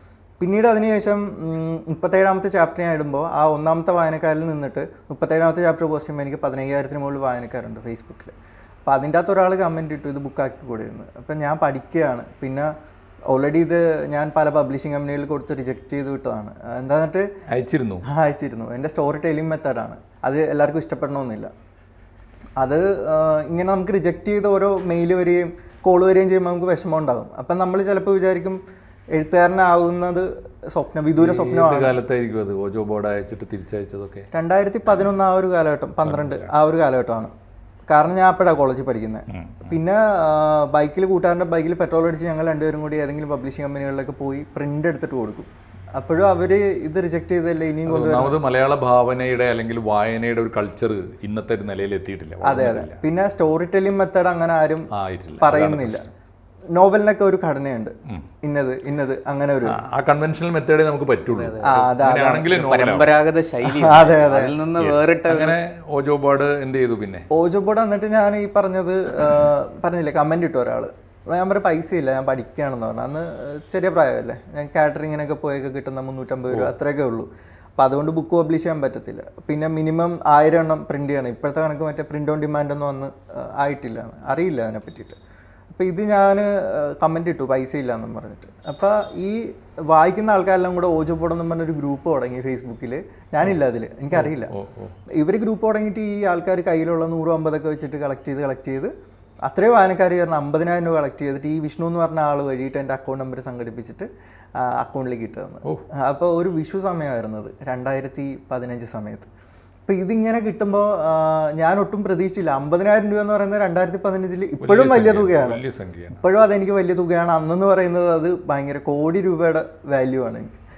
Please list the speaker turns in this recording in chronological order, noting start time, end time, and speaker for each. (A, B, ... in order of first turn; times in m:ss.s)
0:00.4-0:08.3 A
0:08.9-0:12.7 A
0:13.3-0:17.3 A
0:17.5-0:18.0 B
0:18.1-0:21.5 A
0:22.6-0:28.6 A
0:29.1-0:32.0 A
0:31.2-0:34.3 B
0:34.3-0:37.3 A
0:36.0-0:36.5 B
0:37.9-0:48.4 A
0:39.3-0:39.8 B
0:47.9-0:53.0 B
0:52.4-0:56.1 A
0:54.9-0:56.1 B
0:56.7-0:59.8 A
0:59.6-1:03.1 B
1:01.3-1:01.9 C
1:01.6-1:02.5 A
1:02.5-1:05.6 C
1:03.6-1:04.6 A
1:04.8-1:07.3 B
1:07.3-1:25.2 A
1:25.7-1:34.5 A
1:34.1-1:35.0 B
1:35.1-1:38.9 A
1:39.4-1:49.3 A
1:49.9-1:55.6 A
1:54.6-1:56.2 B
1:56.2-2:00.6 A